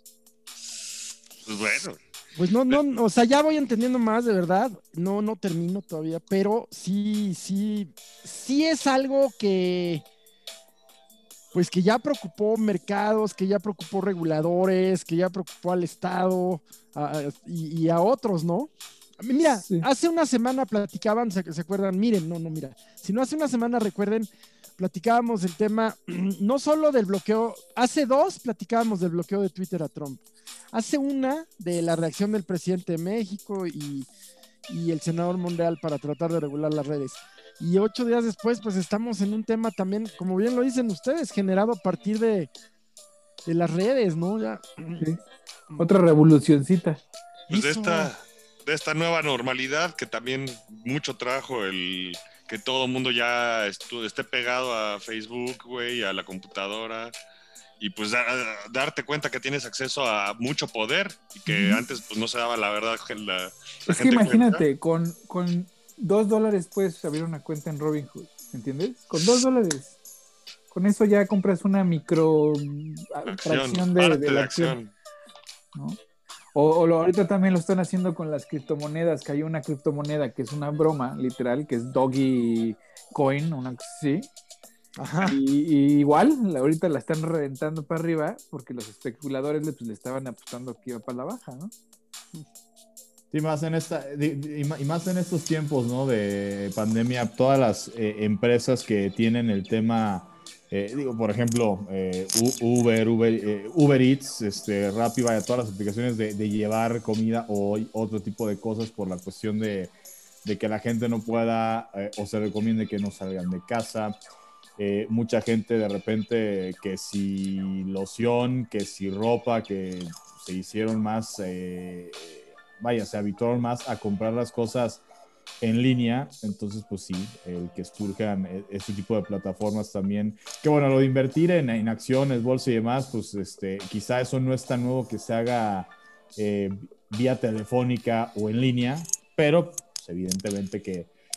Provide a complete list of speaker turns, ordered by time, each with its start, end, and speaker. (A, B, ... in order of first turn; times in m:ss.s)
0:00.6-0:02.0 A
0:02.4-0:10.0 B
0:11.5-0:34.1 B
0:34.7-0:42.5 B
0:43.4-0:45.1 B
0:45.8-0:47.0 C
0:47.5-0:48.1 B
0:47.5-0:57.1 A
0:57.8-1:04.6 A
1:01.5-1:01.8 C
1:03.9-1:09.9 C
1:10.7-1:14.8 C
1:13.3-1:14.9 A
1:15.7-1:16.0 C
1:16.5-1:24.3 C
1:25.0-1:25.4 B
1:25.2-1:31.7 C
1:33.3-1:54.2 D
1:54.8-2:05.0 D
2:05.6-2:21.1 D